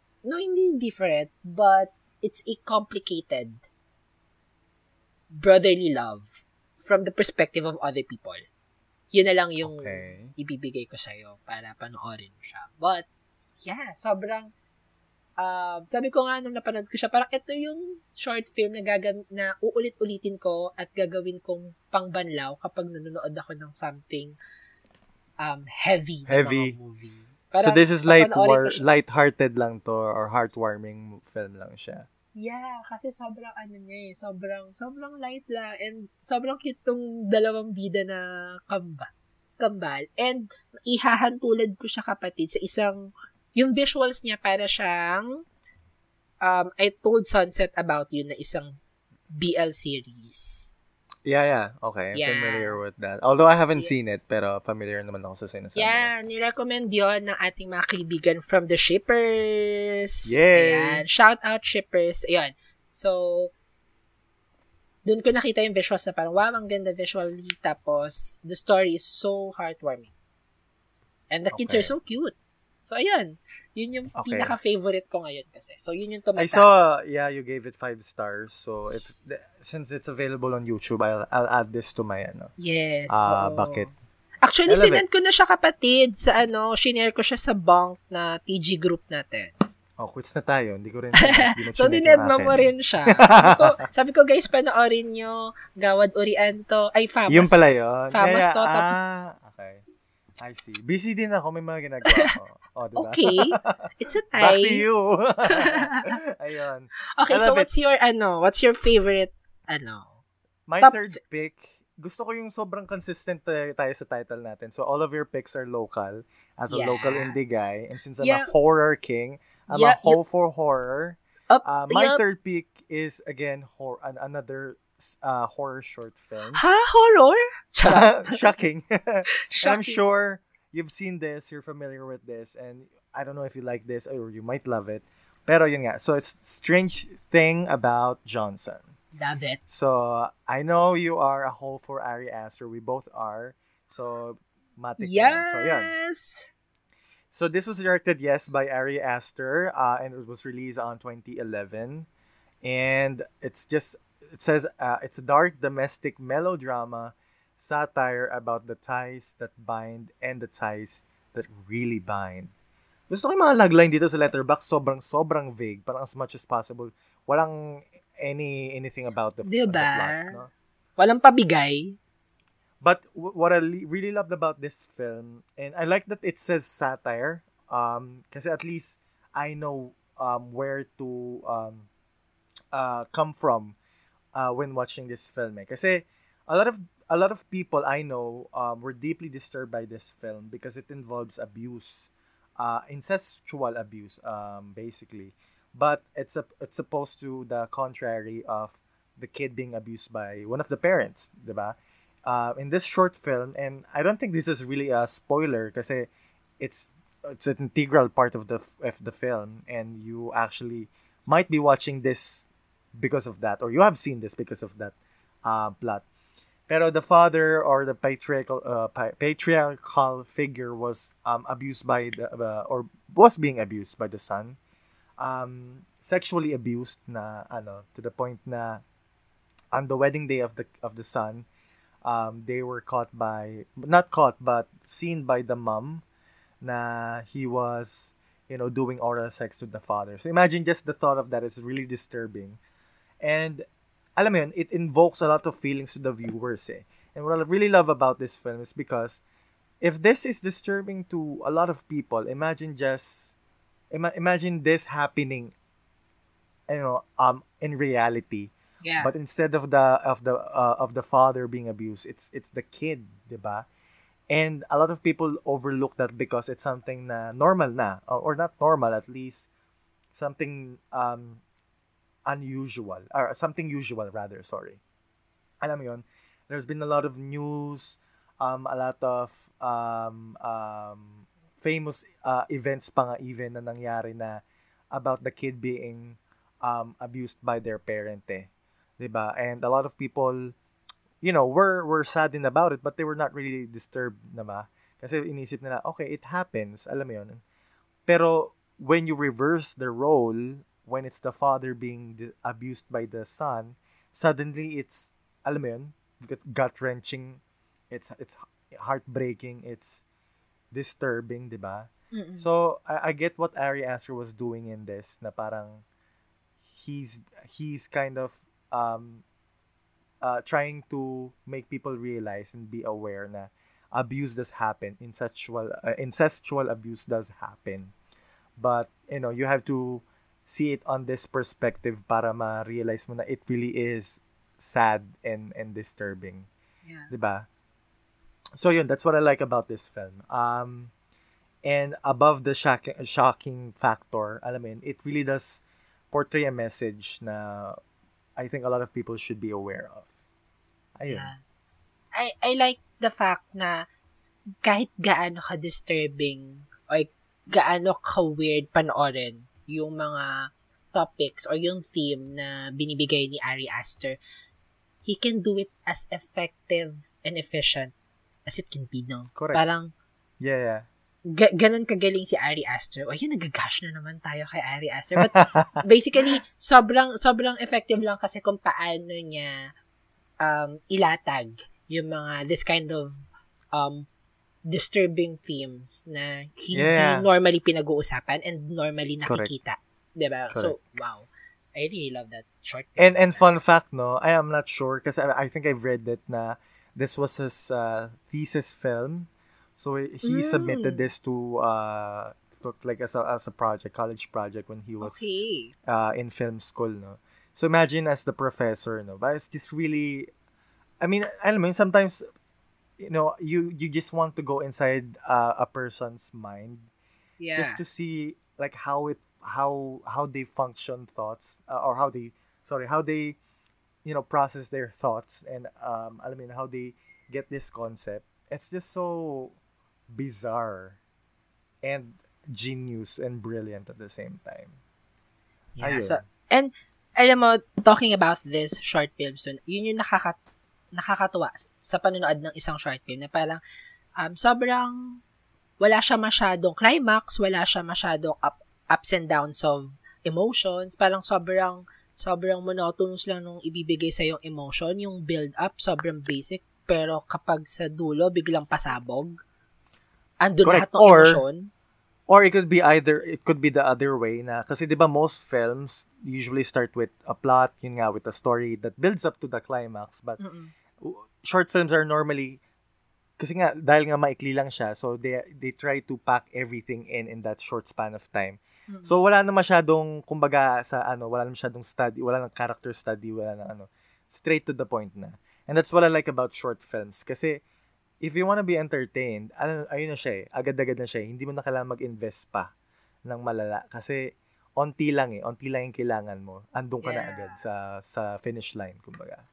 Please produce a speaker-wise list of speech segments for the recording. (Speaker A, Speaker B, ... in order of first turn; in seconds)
Speaker A: 0.2-3.6, 5.3-8.4, 9.1-13.1, 13.6-14.5, 15.4-24.4, 25.4-28.8, 32.4-45.3, 46.4-48.7, 49.3-50.8, 52.1-52.8, 55.8-63.5, 65.0-70.1, 71.3-76.7, 82.6-83.9, 84.4-89.5, 91.2-99.0, 103.0-104.8, 105.5-106.2, 107.2-110.1, 110.8-111.2, 116.7-117.4, 118.2-118.5, 119.7-120.2, 121.5-122.2, 126.5-128.4, 129.3-130.0, 139.2-139.6, 145.0-146.5, 169.4-170.4, 171.0-172.0, 258.8-259.1, 312.1-312.5, 336.9-337.1, 351.1-351.4, 352.1-353.9, 354.6-364.2, 365.0-367.9, 368.5-369.9, 371.3-379.7, 380.4-384.1, 384.6-393.4, 400.2-401.1, 405.0-405.7, 417.4-417.8, 435.8-440.4, 440.9-443.6, 444.2-445.2, 445.8-459.3, 460.4-461.7, 470.4-470.7, 478.9-479.1, 497.0-497.6
Speaker B: 9.6-10.3, 26.3-26.8, 27.6-32.1, 51.2-56.1, 60.3-61.0, 71.5-71.9, 74.2-74.5, 76.4-82.5, 83.1-83.9, 84.7-85.0, 90.0-93.7, 97.3-99.8, 100.4-107.7, 110.7-126.6, 127.9-138.9, 139.7-145.9, 147.3-152.1, 152.6-162.5, 163.1-170.5, 172.8-181.9, 182.7-183.8, 184.3-206.1, 206.6-216.0, 216.7-224.6, 225.2-228.8, 229.7-231.4, 232.0-236.0, 236.6-242.6, 243.2-243.7, 244.2-249.2, 249.8-253.3, 253.9-255.5, 256.7-263.6, 264.3-269.5, 270.1-271.4, 272.3-274.8, 275.6-284.4, 284.9-290.5, 291.2-297.4, 298.1-310.0, 310.7-315.8, 316.7-319.2, 320.2-327.9, 328.6-336.5, 337.1-337.5, 338.6-340.9, 341.6-347.8, 348.4-350.1, 351.0-351.3, 369.3-369.6, 370.4-370.9, 375.3-375.8, 386.7-387.3, 389.2-389.5, 390.5-390.8, 393.0-405.3, 405.9-410.3, 411.0-412.2, 413.0-416.9, 417.6-423.4, 424.0-429.6, 430.1-431.0, 431.8-434.8, 435.8-436.2, 460.6-461.4, 462.3-470.4, 471.0-472.6, 473.4-487.6, 488.2-492.7, 493.2-499.4